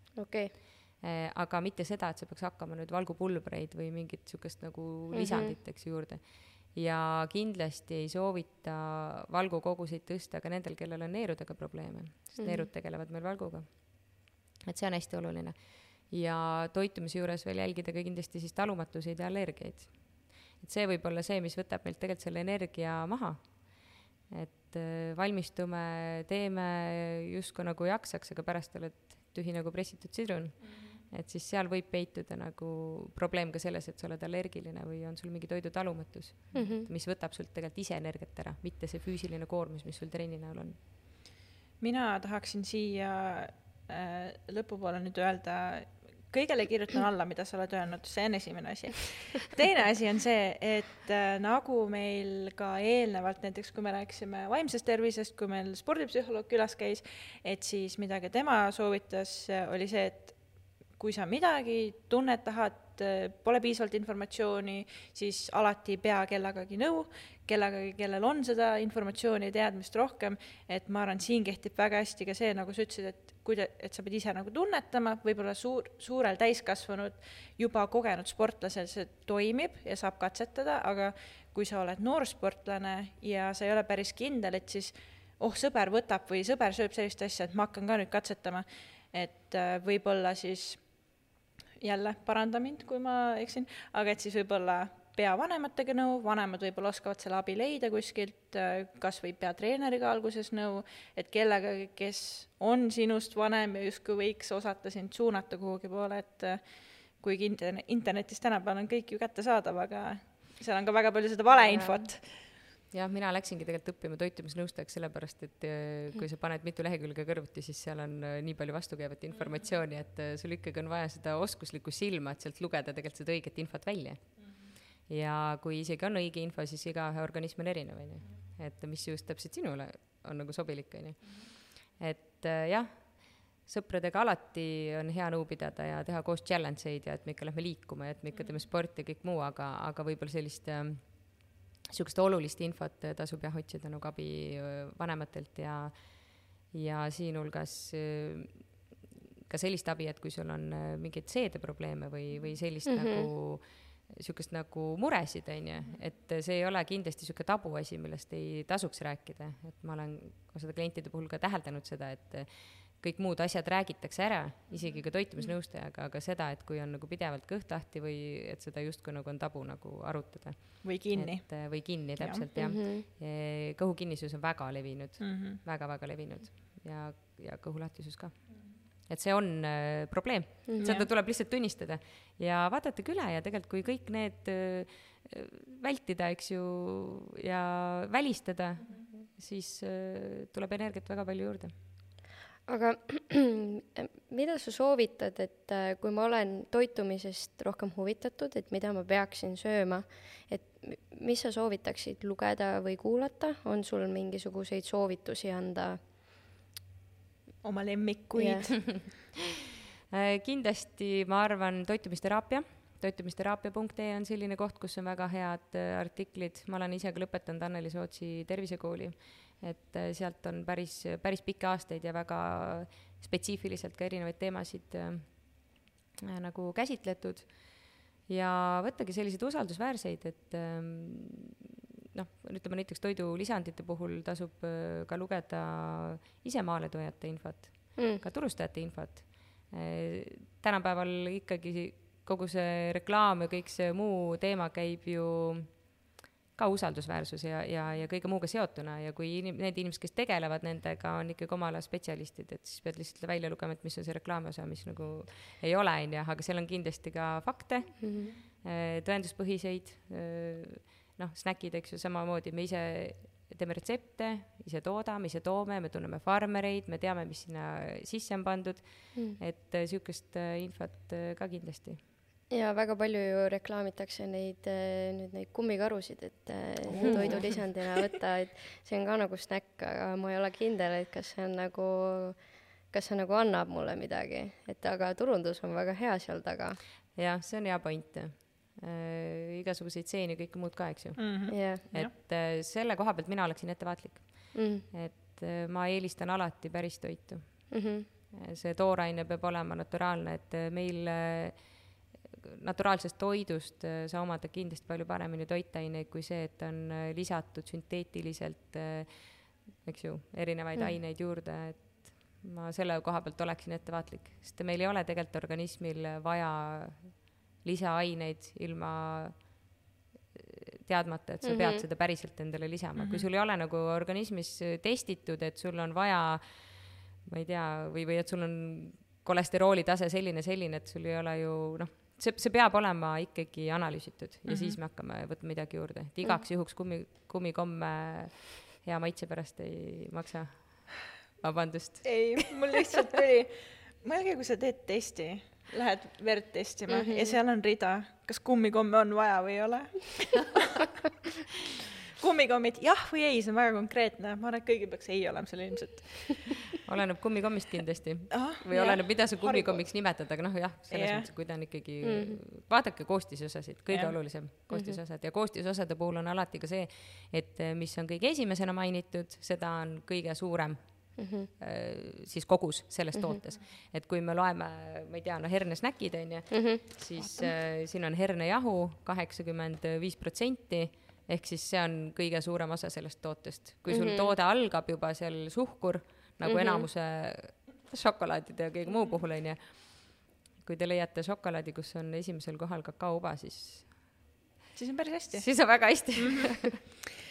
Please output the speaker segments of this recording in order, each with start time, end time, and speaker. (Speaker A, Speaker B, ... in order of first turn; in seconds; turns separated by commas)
Speaker A: 0.1-0.5, Speaker B: 1.0-40.8, Speaker A: 5.1-5.6, Speaker A: 12.4-12.7, Speaker A: 36.5-36.9, Speaker C: 41.8-91.1, Speaker C: 91.8-112.4, Speaker A: 111.7-112.0, Speaker B: 112.9-148.9, Speaker B: 149.5-191.7, Speaker A: 152.9-153.3, Speaker C: 170.8-172.5, Speaker A: 172.6-173.1, Speaker C: 175.2-175.6, Speaker A: 180.7-180.9, Speaker C: 180.8-181.1, Speaker A: 192.7-206.0, Speaker C: 207.6-209.1, Speaker A: 208.3-208.7, Speaker B: 210.1-246.0, Speaker A: 238.0-238.2, Speaker B: 246.6-272.0, Speaker A: 258.0-258.3, Speaker A: 269.1-269.4, Speaker A: 272.5-286.8, Speaker C: 276.9-277.6, Speaker B: 276.9-277.7, Speaker B: 287.1-319.7, Speaker C: 291.2-292.1, Speaker A: 291.5-291.8, Speaker A: 294.5-294.8, Speaker A: 297.7-298.1, Speaker B: 320.3-343.0, Speaker A: 321.4-321.8, Speaker C: 323.0-323.3, Speaker C: 334.5-334.8, Speaker C: 342.0-350.9, Speaker A: 346.9-347.4, Speaker C: 352.2-356.7, Speaker B: 356.9-394.0, Speaker C: 358.3-360.1, Speaker C: 360.9-361.3, Speaker A: 362.0-362.4, Speaker C: 363.9-364.1, Speaker A: 364.7-365.0, Speaker A: 371.2-371.5, Speaker A: 373.1-373.4, Speaker A: 376.5-376.8, Speaker A: 383.9-384.3, Speaker A: 386.4-386.9, Speaker C: 394.8-396.9, Speaker B: 395.3-396.7